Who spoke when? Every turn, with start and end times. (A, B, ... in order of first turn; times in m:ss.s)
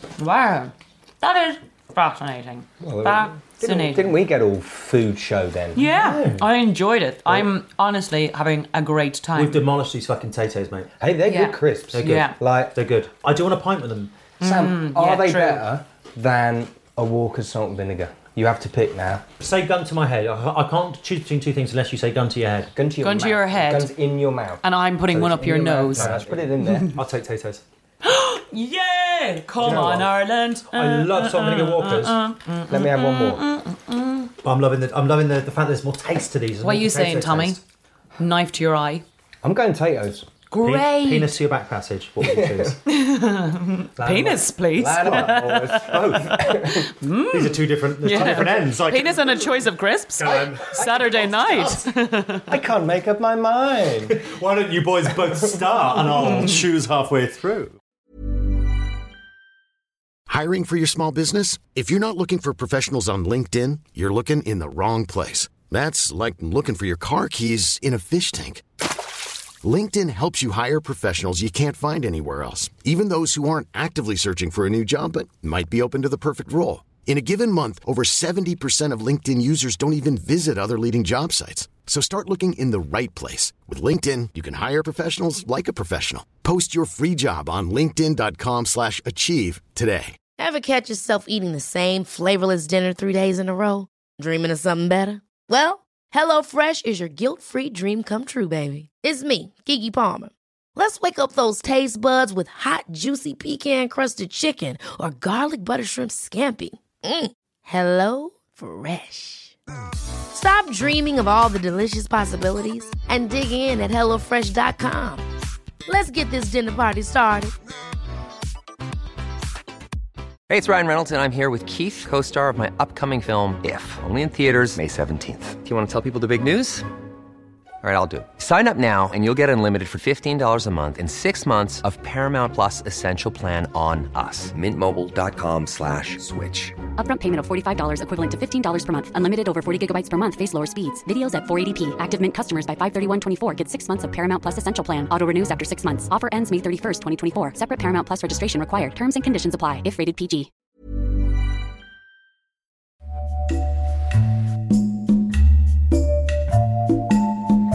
0:00.2-0:04.2 A
0:02.8-0:05.8 B
0:05.8-0:09.6 A
0:05.8-0:06.5 C
0:09.4-0:10.9 C
0:11.0-0:12.8 B
0:11.2-0:12.4 A
0:11.9-0:14.2 C
0:14.4-0:15.6 A
0:14.4-0:19.2 B
0:19.4-0:22.7 C
0:22.8-0:26.9 B
0:23.0-0:23.9 A
0:24.6-0:27.0 A
0:26.0-0:27.6 C
0:28.0-0:34.3 A
0:29.6-0:30.1 B
0:29.6-0:30.0 C
0:30.7-0:32.2 C
0:32.7-0:33.4 B
0:34.4-0:37.6 C
0:36.6-0:37.6 A
0:38.2-0:39.0 A
0:39.4-0:40.3 B
0:40.5-0:41.3 A
0:40.6-0:42.8 C
0:42.2-0:42.8 B
0:42.9-0:52.5 A
0:44.0-0:46.9 B
0:45.0-0:46.5 C
0:47.3-0:49.6 C
0:50.2-0:51.8 C
0:52.5-0:54.2 B
0:54.1-0:57.8 C
0:56.2-0:56.6 A
1:00.3-1:08.6 D
1:09.6-1:30.2 D
1:30.4-1:49.6 E
1:50.3-1:55.2 E
1:55.9-1:57.5 E
2:00.5-2:06.9 F
2:07.8-2:16.8 F
2:17.0-2:30.5 G